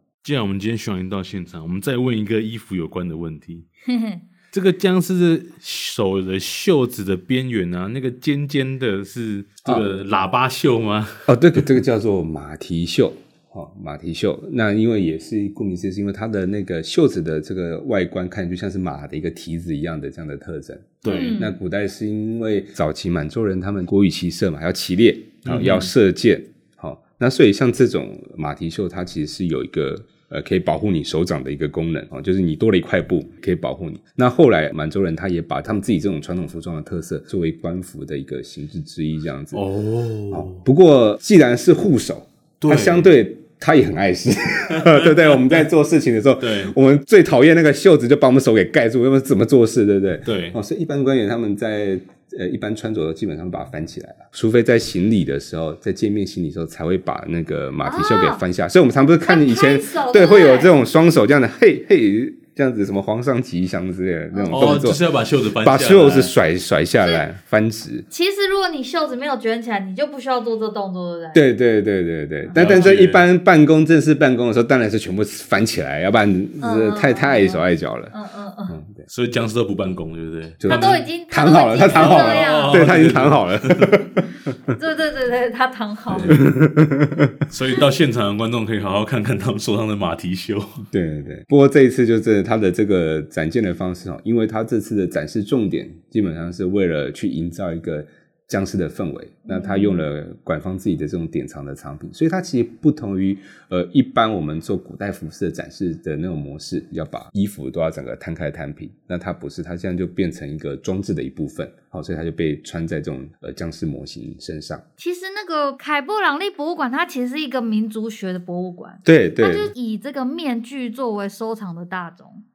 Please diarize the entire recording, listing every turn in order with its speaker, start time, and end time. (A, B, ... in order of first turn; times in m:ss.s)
0:00.2-0:03.6 A
0:03.9-0:04.2 B
0:04.5-0:11.6 A
0:11.3-0:39.6 C
0:21.0-0:21.4 A
0:21.1-0:21.5 B
0:25.4-0:25.9 A
0:39.5-0:40.6 A
0:40.3-1:05.0 C
0:42.6-0:43.1 A
0:44.8-0:45.6 A
0:46.4-0:46.7 A
0:50.2-0:50.6 A
0:57.8-0:58.4 B
0:59.2-1:00.7 B
1:04.3-1:04.8 B
1:04.5-1:06.3 A
1:05.6-1:08.0 C
1:08.1-1:11.4 B
1:11.3-1:18.1 C
1:12.4-1:12.9 B
1:12.5-1:13.3 A
1:16.6-1:18.7 B
1:18.7-1:19.1 C
1:19.1-1:21.1 A
1:20.6-1:24.3 C
1:20.7-1:22.9 B
1:21.8-1:24.1 A
1:24.7-1:26.4 B
1:26.1-1:27.4 C
1:26.2-1:26.5 A
1:27.5-1:30.8 A
1:30.8-1:54.8 C
1:39.4-1:40.0 B
1:55.0-2:02.4 B
1:59.0-1:59.7 C